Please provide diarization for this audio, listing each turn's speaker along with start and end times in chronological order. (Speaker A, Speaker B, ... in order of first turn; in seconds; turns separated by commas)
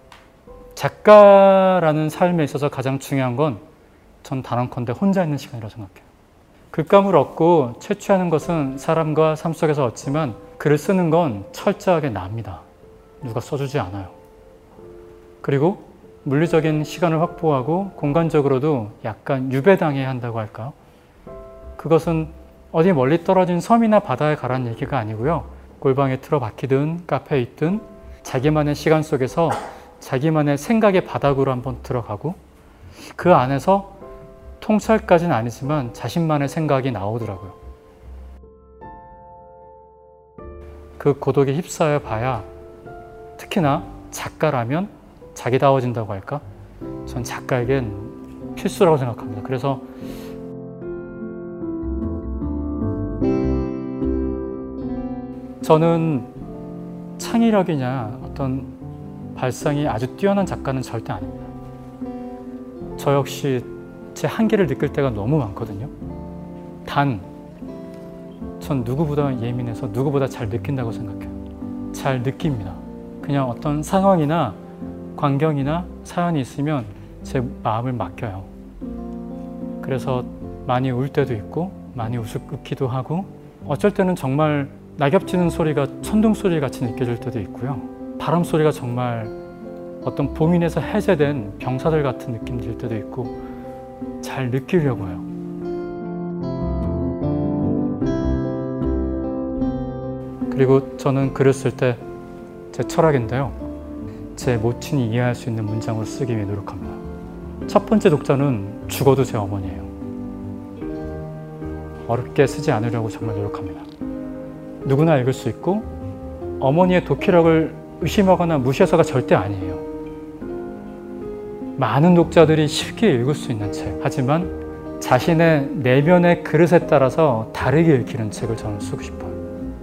Speaker A: 0.7-3.6, Speaker A: 4.2-6.0, Speaker A: 6.7-12.6, Speaker A: 13.2-14.1, Speaker A: 15.4-20.8, Speaker A: 21.8-32.4, Speaker A: 33.1-34.0, Speaker A: 34.6-37.5, Speaker A: 41.0-42.5, Speaker A: 43.4-46.4, Speaker A: 47.0-49.9, Speaker A: 55.6-56.3, Speaker A: 57.2-58.7, Speaker A: 59.3-61.5, Speaker A: 63.0-65.9, Speaker A: 66.8-67.2, Speaker A: 68.6-71.3, Speaker A: 71.9-74.6, Speaker A: 75.2-78.5, Speaker A: 79.8-89.3, Speaker A: 90.0-93.4, Speaker A: 94.2-95.2, Speaker A: 100.5-102.0, Speaker A: 102.7-103.6, Speaker A: 104.3-107.0, Speaker A: 107.7-109.9, Speaker A: 112.0-113.9, Speaker A: 114.8-115.9, Speaker A: 116.6-119.8, Speaker A: 121.8-129.4